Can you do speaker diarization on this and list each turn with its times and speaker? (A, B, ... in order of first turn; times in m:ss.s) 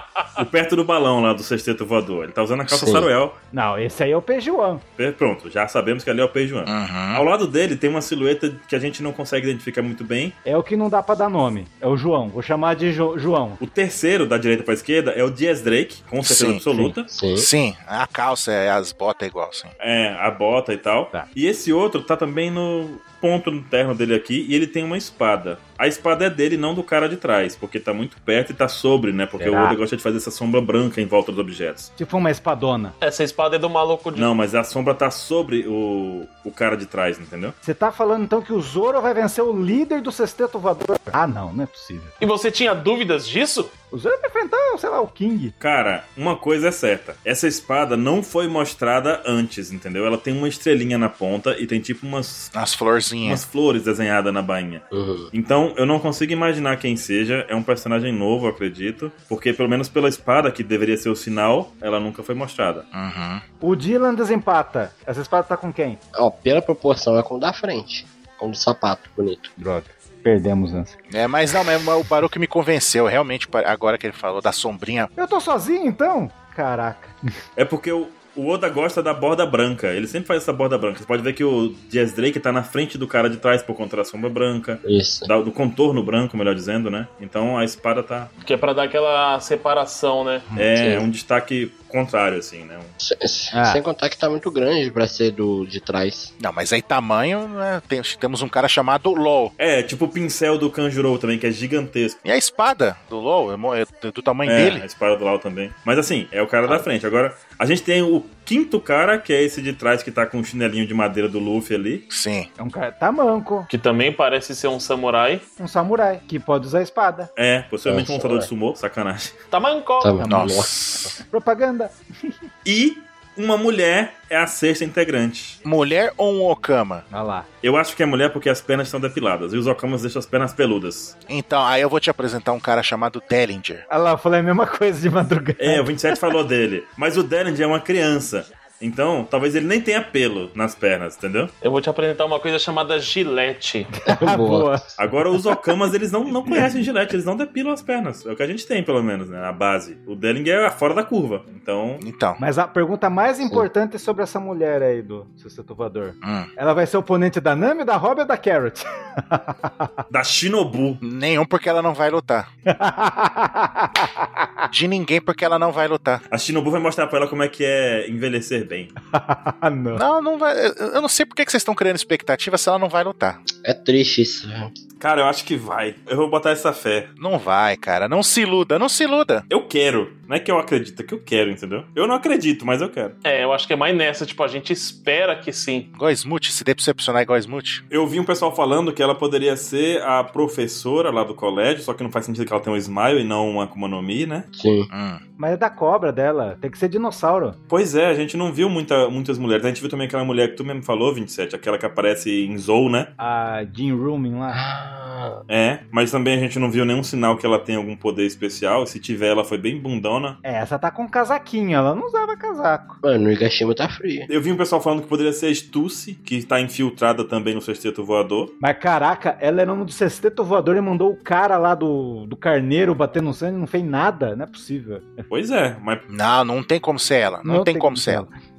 0:00.4-0:03.4 A
0:02.7-0:03.1 B
0:03.5-0:04.8 C
0:05.0-0:10.4 A
0:06.7-0:07.2 D
0:10.4-0:13.6 C
0:13.6-0:17.1 A
0:16.2-0:16.6 D
0:16.7-0:16.9 C
0:17.1-0:17.5 B
0:17.4-0:19.7 D
0:19.8-0:31.9 A
0:29.4-0:29.8 C
0:32.0-0:33.0 C
0:33.0-0:34.3 E
0:34.2-0:37.6 A
0:37.6-0:42.1 C
0:42.2-0:43.7 E
0:43.9-0:45.5 C
0:45.6-0:52.5 A
0:52.5-0:53.4 D
0:53.2-1:02.9 A
0:54.9-0:55.3 B
1:02.9-1:03.4 D
1:03.6-1:06.0 C
1:06.2-1:09.5 B
1:09.6-1:11.0 C
1:11.1-1:15.1 D
1:15.2-1:17.2 C
1:17.6-1:28.3 A
1:24.8-1:25.3 B
1:28.4-1:30.5 E
1:30.6-1:32.9 A
1:30.8-1:31.1 B
1:33.0-1:36.3 B
1:33.5-1:33.8 C
1:36.4-1:39.5 D
1:39.6-1:42.2 A
1:42.2-1:44.8 D
1:44.4-1:52.1 A
1:52.1-1:52.5 D
1:52.6-1:53.7 C
1:53.7-1:55.4 E
1:55.6-1:57.3 C
1:57.4-1:59.4 A
1:57.9-1:58.5 B
1:59.5-2:00.2 E
2:00.0-2:01.2 B
2:00.2-2:00.6 C
2:00.2-2:01.1 D
2:01.2-2:02.3 C
2:02.6-2:05.6 A
2:05.6-2:07.0 D
2:07.1-2:07.5 C
2:07.6-2:11.2 A
2:11.3-2:13.8 D
2:13.9-2:15.9 C
2:15.6-2:21.5 A
2:21.6-2:23.9 E
2:24.0-2:25.0 C
2:24.1-2:24.7 B
2:25.0-2:32.0 A
2:32.0-2:32.4 D
2:32.4-2:39.9 C
2:36.2-2:36.5 D
2:40.1-2:41.0 A
2:41.0-2:42.5 D
2:42.7-2:44.5 C
2:44.7-2:46.2 D
2:46.3-2:48.9 A
2:49.1-2:50.0 C
2:49.9-2:53.4 D
2:53.6-2:54.7 B
2:55.0-2:57.1 A
2:57.2-2:59.4 D
2:59.5-3:03.2 A
3:03.2-3:05.9 E
3:05.9-3:07.8 D
3:07.9-3:14.5 A
3:14.6-3:14.9 B
3:14.9-3:15.2 D
3:15.4-3:17.6 C
3:17.7-3:23.1 A
3:23.2-3:24.6 C
3:24.5-3:25.4 B
3:25.5-3:30.4 A
3:30.4-3:33.0 C
3:33.0-3:34.3 B
3:34.3-3:38.5 A
3:38.6-3:45.3 C
3:45.3-3:46.0 A
3:46.1-3:48.3 D
3:47.4-3:48.3 C